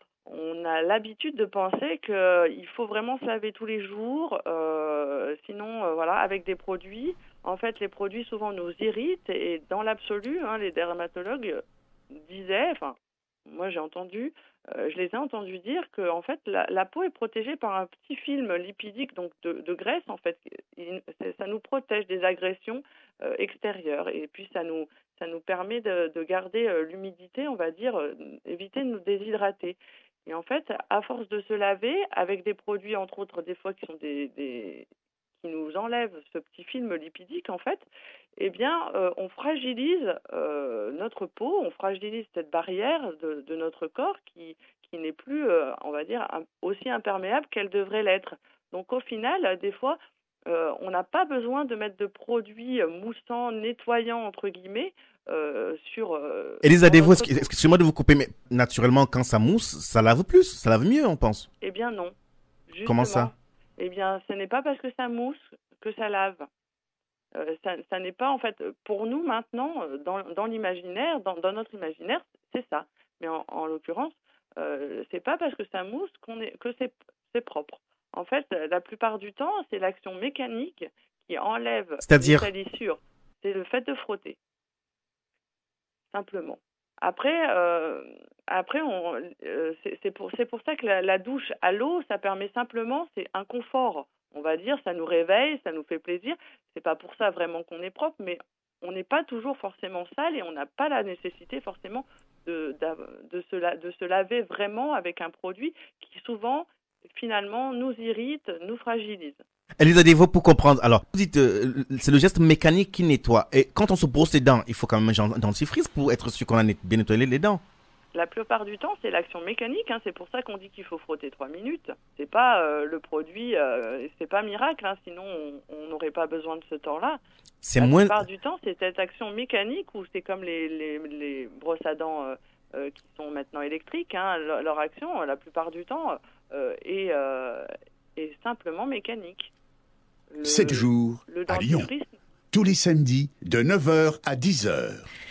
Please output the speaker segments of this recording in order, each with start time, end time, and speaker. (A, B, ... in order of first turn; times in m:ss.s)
0:00.3-0:13.0 A
0:13.5-0:34.9 A
0:35.4-0:37.8 A
0:38.4-0:57.5 A
0:56.6-1:01.5 B
1:01.6-1:02.2 A
1:02.7-1:06.5 A
1:02.9-1:03.3 B
1:07.3-1:24.4 A
1:22.0-1:22.5 B
1:26.1-1:49.4 A
1:49.8-1:57.6 B
1:58.1-2:07.2 A
2:07.6-2:08.2 B
2:07.8-2:19.5 A
2:20.3-2:22.1 A
2:20.4-2:21.9 C
2:22.5-2:25.1 C